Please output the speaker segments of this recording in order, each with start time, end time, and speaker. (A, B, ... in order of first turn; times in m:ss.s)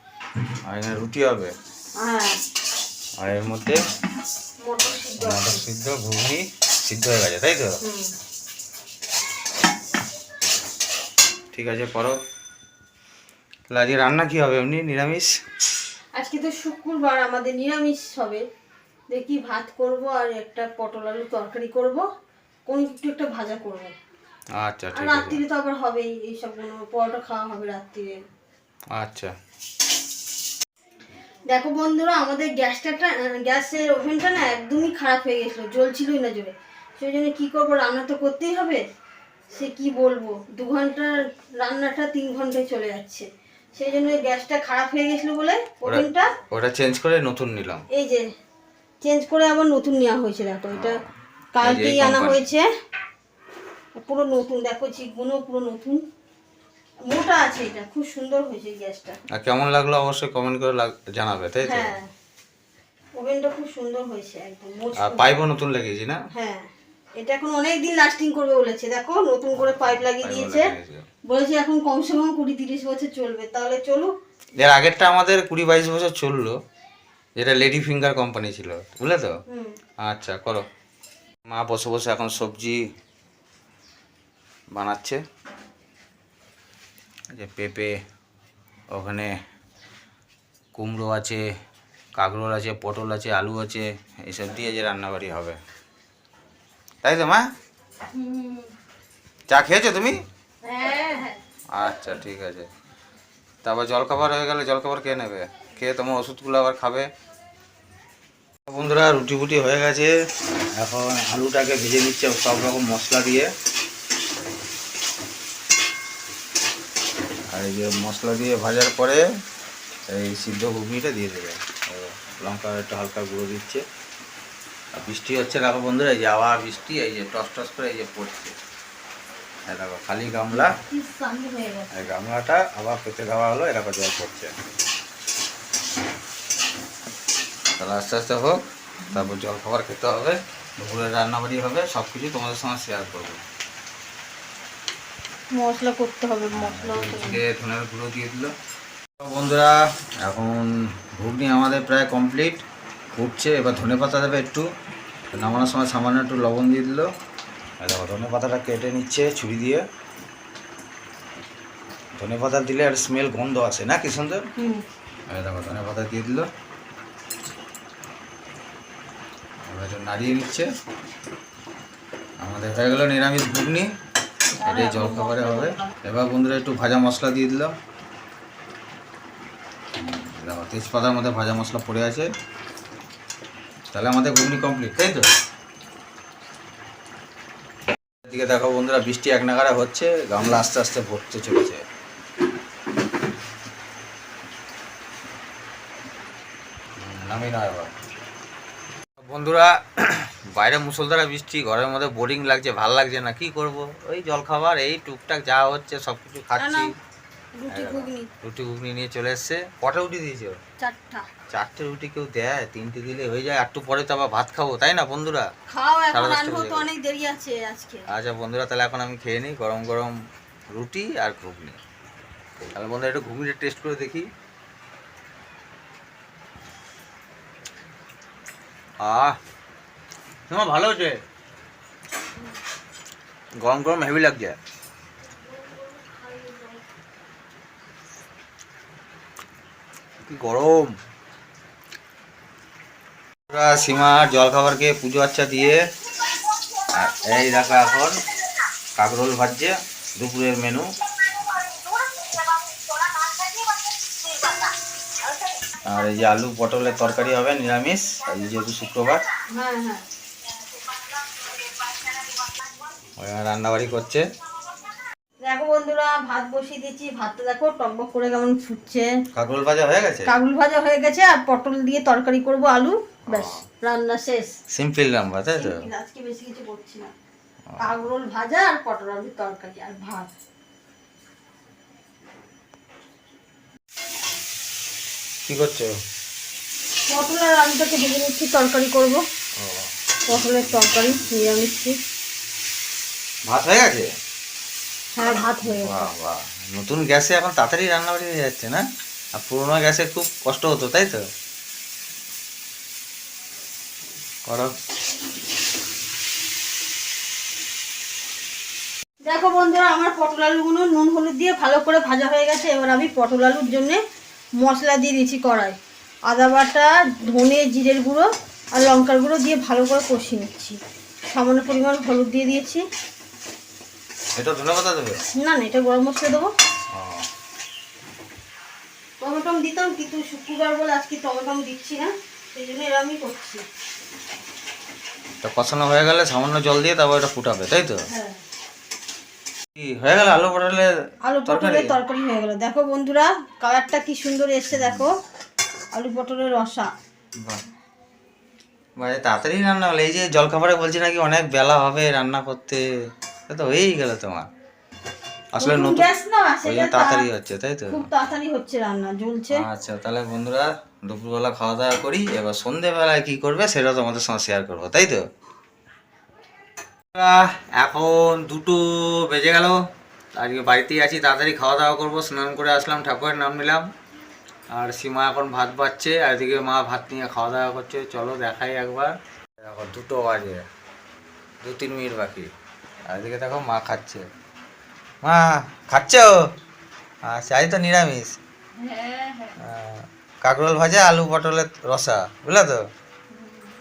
0:00.6-0:01.5 A
0:02.0-0:02.4 B
0:03.2-0:03.8 A
0:04.6-0:05.6 B
0:05.2-0:07.8 A
0:07.8-0:08.1 B
0:11.5-0:12.2 A
0:13.7-0:15.3 A
0:16.1-0:18.4 B
0:19.1-0:22.0 B
0:22.7-0:23.9 B
0:24.6-0:25.4 A
0:24.9-0:28.2 B
0:28.9-0:29.3 A
0:31.5-0:38.8 B
0:39.5-0:46.3 B
0:45.8-0:47.8 A
0:47.9-0:48.2 B
0:49.0-0:51.0 B
0:50.7-0:51.0 A
0:51.5-0:52.7 B
0:51.6-0:52.4 A
0:54.0-0:56.0 B
0:57.1-0:59.2 B
0:59.3-1:02.0 A
1:01.6-1:02.1 B
1:03.2-1:05.2 B
1:05.0-1:06.2 A
1:06.3-1:06.7 B
1:07.2-1:10.7 B
1:09.6-1:11.0 A
1:11.3-1:14.1 B
1:14.6-1:16.6 A
1:17.4-1:19.3 A
1:19.5-1:19.8 B
1:20.0-1:20.6 A
1:21.5-1:22.8 A
1:24.7-1:25.2 A
1:27.3-1:28.0 A
1:28.9-1:29.3 A
1:30.7-1:31.4 A
1:32.2-1:35.6 A
1:37.0-1:37.5 A
1:38.1-1:38.7 B
1:39.5-1:40.2 A
1:40.6-1:41.4 B
1:41.7-1:42.7 A
1:43.6-1:47.1 A
1:48.7-1:50.1 A
1:50.7-1:53.5 A
1:57.5-1:59.2 A
2:00.1-2:03.8 A
2:04.9-2:08.6 A
2:09.7-2:10.8 A
2:10.5-2:11.9 B
2:11.9-2:14.5 A
2:17.8-2:23.4 A
2:25.5-2:27.4 B
2:26.5-2:28.5 A
2:29.2-2:34.6 A
2:35.3-2:37.1 A
2:37.8-2:39.8 A
2:42.2-2:44.4 A
2:44.6-2:44.8 B
2:45.3-2:46.5 A
2:49.6-2:50.7 A
2:52.4-2:53.9 A
2:54.6-2:55.9 B
2:54.6-2:57.7 A
3:00.0-3:02.3 A
3:03.9-3:05.3 A
3:08.2-3:11.8 A
3:17.0-3:17.9 A
3:19.2-3:26.9 A
3:26.6-3:26.9 B
3:27.6-3:28.3 B
3:27.7-3:30.6 A
3:30.8-3:31.3 B
3:31.5-3:35.5 A
3:35.7-3:38.0 B
3:36.1-3:36.9 A
3:38.1-3:40.2 A
3:40.7-3:41.8 A
3:42.7-3:44.3 A
3:49.0-3:49.4 A
3:50.5-3:51.2 A
3:53.6-3:54.6 A
3:55.5-3:56.8 B
4:00.3-4:00.9 A
4:03.5-4:05.8 A
4:06.9-4:08.2 A
4:09.0-4:10.9 A
4:15.8-4:19.2 A
4:19.5-4:20.0 B
4:23.2-4:24.2 A
4:25.4-4:29.1 B
4:29.3-4:30.3 A
4:30.2-4:34.5 B
4:33.3-4:33.6 A
4:34.7-4:35.8 A
4:35.6-4:37.1 B
4:37.8-4:40.3 B
4:45.5-4:45.9 A
4:47.1-4:49.2 B
4:49.6-4:49.9 A
4:50.3-4:52.0 B
4:53.4-4:54.1 A
4:55.2-4:56.1 B
4:55.4-4:58.8 A
4:59.3-5:01.2 A
5:04.5-5:04.7 A
5:09.2-5:14.0 B
5:14.6-5:15.8 B
5:16.3-5:20.8 B
5:21.3-5:22.8 B
5:24.3-5:25.2 A
5:25.3-5:26.5 B
5:26.9-5:27.2 A
5:29.2-5:33.6 B
5:35.4-5:38.0 A
5:38.1-5:38.4 B
5:39.8-5:40.9 A
5:41.2-5:45.1 B
5:41.4-5:42.0 A
5:44.8-5:45.0 A
5:45.9-5:46.9 B
5:49.0-5:52.8 A
5:53.5-5:54.5 A
5:55.5-5:56.1 A
5:55.6-5:57.3 B
5:56.6-5:58.1 A
5:57.9-5:59.6 B
5:59.5-6:05.2 A
6:07.1-6:09.8 A
6:10.3-6:13.8 A
6:14.7-6:20.6 A
6:21.6-6:22.5 A
6:23.0-6:24.2 A
6:25.2-6:26.4 A
6:27.2-6:28.4 A
6:28.8-6:29.5 B
6:29.6-6:32.8 A